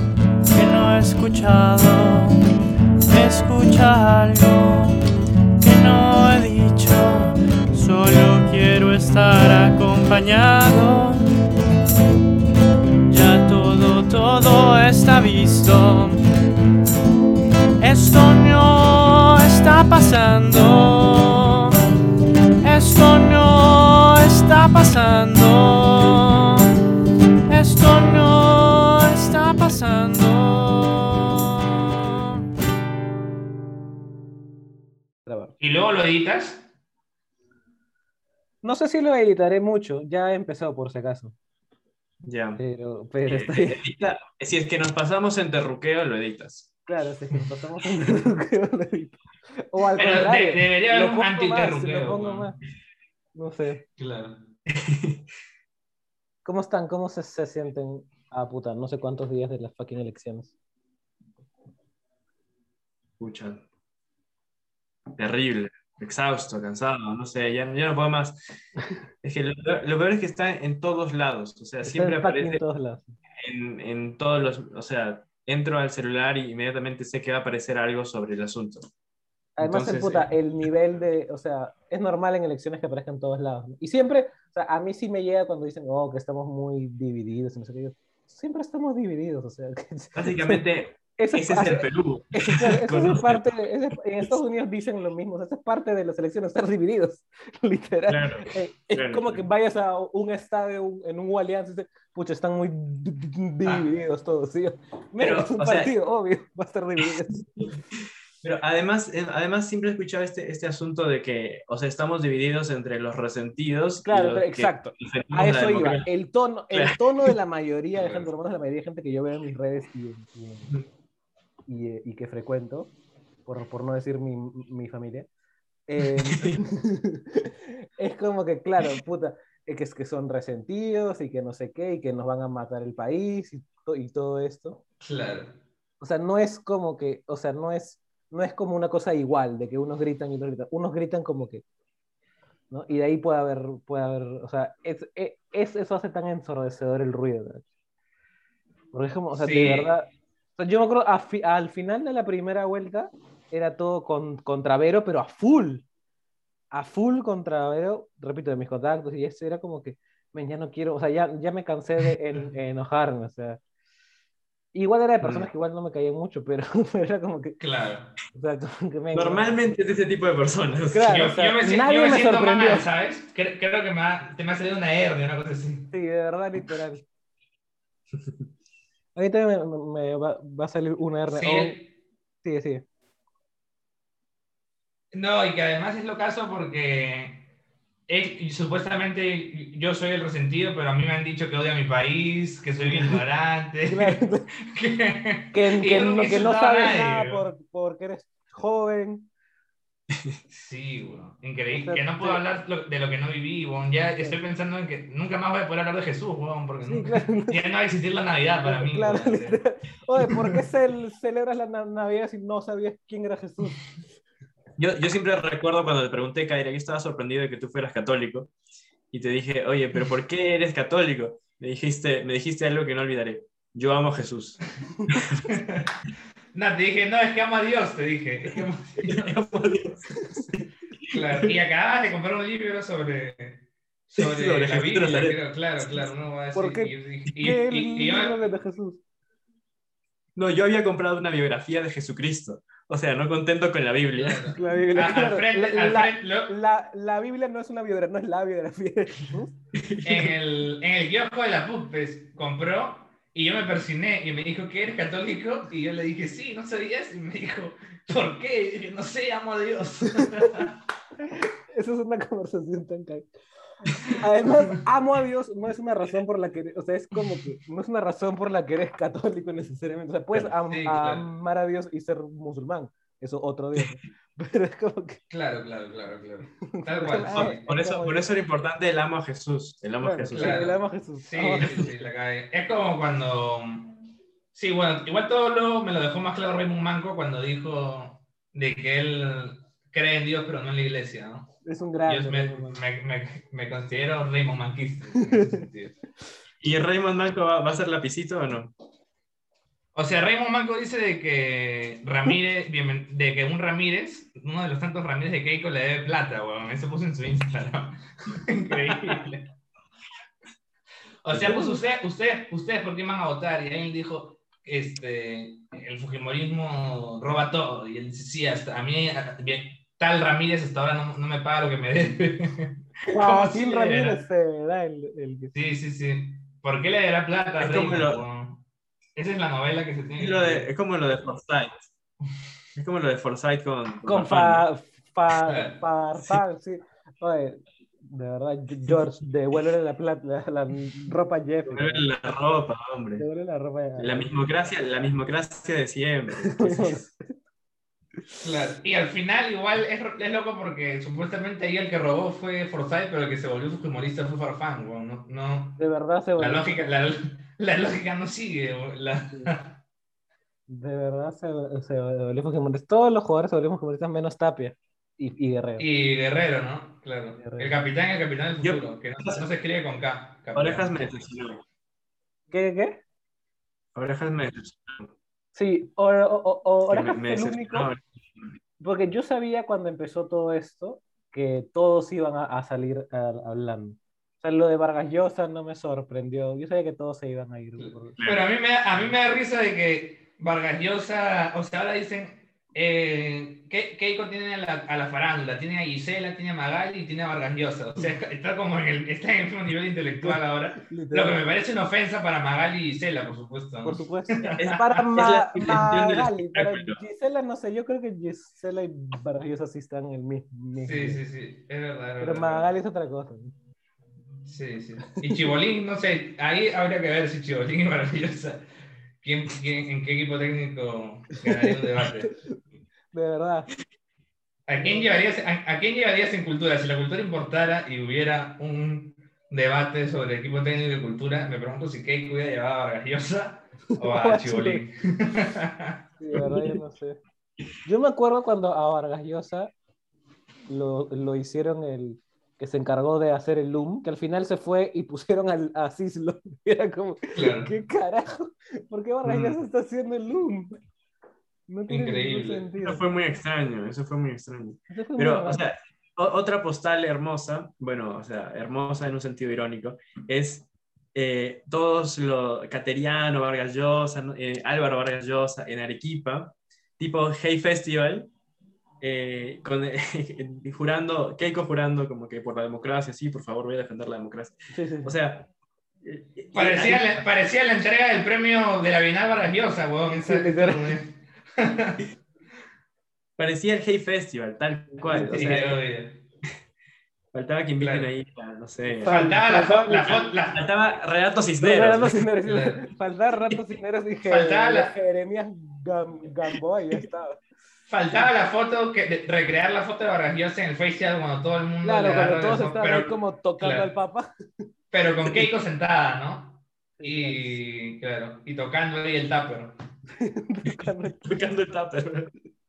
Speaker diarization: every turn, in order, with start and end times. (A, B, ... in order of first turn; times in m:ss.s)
0:00.5-0:02.4 A
0:03.1-0:05.0 A
0:05.6-0:11.3 A
0:13.1-0:16.2 A
0:17.8-0:21.7 A
0:22.6-0:26.6 A
0:27.5-0:32.3 A
0:35.3-0:35.6 B
0:35.6-0:36.7 C
0:38.6-0:41.4 B
0:42.2-0:42.6 D
0:42.6-0:43.8 B
0:43.3-0:46.7 D
0:46.9-0:52.6 B
0:50.0-0:52.5 C
0:53.4-0:53.8 B
0:54.0-0:54.5 C
0:54.7-0:55.2 D
0:56.4-1:00.6 B
1:03.2-1:03.6 D
1:05.2-1:08.4 D
1:09.2-1:12.6 D
1:11.8-1:13.2 B
1:13.4-1:18.9 D
1:19.6-1:30.6 B
1:19.6-1:20.4 D
1:30.2-1:33.4 D
1:31.2-1:47.4 B
1:38.1-1:39.4 D
1:45.2-1:45.9 D
1:47.3-1:47.8 D
1:48.4-1:56.1 D
1:54.0-2:00.7 B
1:56.7-1:57.3 D
1:58.0-1:58.3 C
2:01.7-2:02.9 B
2:03.4-2:05.3 B
2:05.9-2:14.8 B
2:06.3-2:06.6 D
2:15.0-2:15.6 C
2:16.0-2:21.6 B
2:22.7-2:27.6 B
2:28.9-2:35.9 B
2:29.4-2:29.9 C
2:36.7-2:43.6 B
2:44.7-2:47.6 B
2:45.2-2:45.5 D
2:47.6-2:48.2 C
2:48.3-2:49.6 B
2:49.2-2:51.1 D
2:50.9-2:52.9 B
2:51.0-2:55.9 C
2:55.9-2:57.0 B
2:59.2-3:01.8 B
3:01.3-3:01.9 C
3:02.4-3:02.9 B
3:05.1-3:07.5 C
3:08.1-3:17.5 C
3:12.8-3:13.2 B
3:13.9-3:14.5 B
3:15.5-3:19.3 B
3:20.1-3:20.4 D
3:20.5-3:29.6 C
3:21.7-3:22.4 B
3:26.8-3:27.6 B
3:28.6-3:33.8 B
3:34.8-3:38.5 D
3:39.1-3:45.5 D
3:45.5-3:45.9 C
3:46.5-3:49.5 C
3:49.1-3:51.5 D
3:51.1-3:58.4 C
3:54.2-3:55.4 D
3:56.5-3:59.0 B
4:00.4-4:04.5 D
4:04.2-4:06.5 C
4:04.5-4:09.6 B
4:09.8-4:10.3 D
4:10.0-4:20.8 C
4:21.7-4:23.3 B
4:23.9-4:35.2 B
4:30.7-4:31.2 C
4:35.3-4:37.6 C
4:36.6-4:38.3 B
4:37.3-4:40.7 D
4:40.0-4:41.8 B
4:40.3-4:44.0 C
4:44.5-4:51.5 C
4:51.6-4:52.8 B
4:52.1-4:56.0 C
4:56.6-4:58.7 D
5:00.0-5:09.5 C
5:08.7-5:09.2 D
5:11.2-5:24.2 C
5:11.4-5:11.8 B
5:23.1-5:25.5 B
5:25.5-5:28.6 C
5:27.6-5:28.2 D
5:29.2-5:30.7 C
5:30.2-5:31.9 D
5:32.8-5:34.6 D
5:34.1-5:42.1 B
5:35.4-5:35.8 C
5:41.7-5:43.3 D
5:43.2-5:44.3 B
5:44.0-5:47.1 D
5:46.4-5:47.3 B
5:48.4-5:55.8 C
5:55.8-5:56.6 B
5:56.4-5:59.8 C
6:00.7-6:05.8 B
6:05.8-6:11.1 C
6:07.4-6:07.8 B
6:08.6-6:09.5 D
6:10.6-6:11.6 D
6:12.5-6:13.0 B
6:14.0-6:15.1 D
6:15.6-6:17.9 B
6:16.9-6:18.5 D
6:18.8-6:28.2 B
6:27.8-6:44.6 C
6:28.2-6:28.5 D
6:40.2-6:41.4 B
6:43.8-6:51.2 B
6:44.6-6:47.0 D
6:50.8-6:52.7 C
6:52.2-6:53.5 B
6:54.4-6:58.7 C
6:59.2-7:02.3 C
7:01.5-7:02.6 B
7:03.1-7:03.7 B
7:04.7-7:16.0 C
7:04.8-7:05.1 B
7:14.0-7:14.8 B
7:16.2-7:17.2 B
7:17.8-7:19.7 B
7:20.7-7:30.8 B
7:27.4-7:27.7 C
7:29.3-7:29.6 D
7:31.7-7:33.0 B
7:31.9-7:32.7 C
7:32.8-7:48.3 D
7:34.9-7:35.6 B
7:49.0-7:55.5 D
7:54.7-7:55.1 B
7:56.0-7:57.2 D
7:56.5-8:02.0 C
8:00.3-8:01.0 B
8:03.4-8:05.8 D
8:05.0-8:05.4 B
8:05.1-8:06.2 C
8:07.3-8:09.3 D
8:07.8-8:08.1 C
8:09.0-8:10.3 B
8:09.0-8:10.6 C
8:10.5-8:12.2 D
8:11.6-8:17.4 B
8:12.4-8:12.8 C
8:14.3-8:14.9 C
8:17.9-8:23.9 C
8:21.8-8:24.3 B
8:24.9-8:29.8 C
8:27.0-8:27.6 B
8:30.2-8:31.3 B
8:30.7-8:32.3 D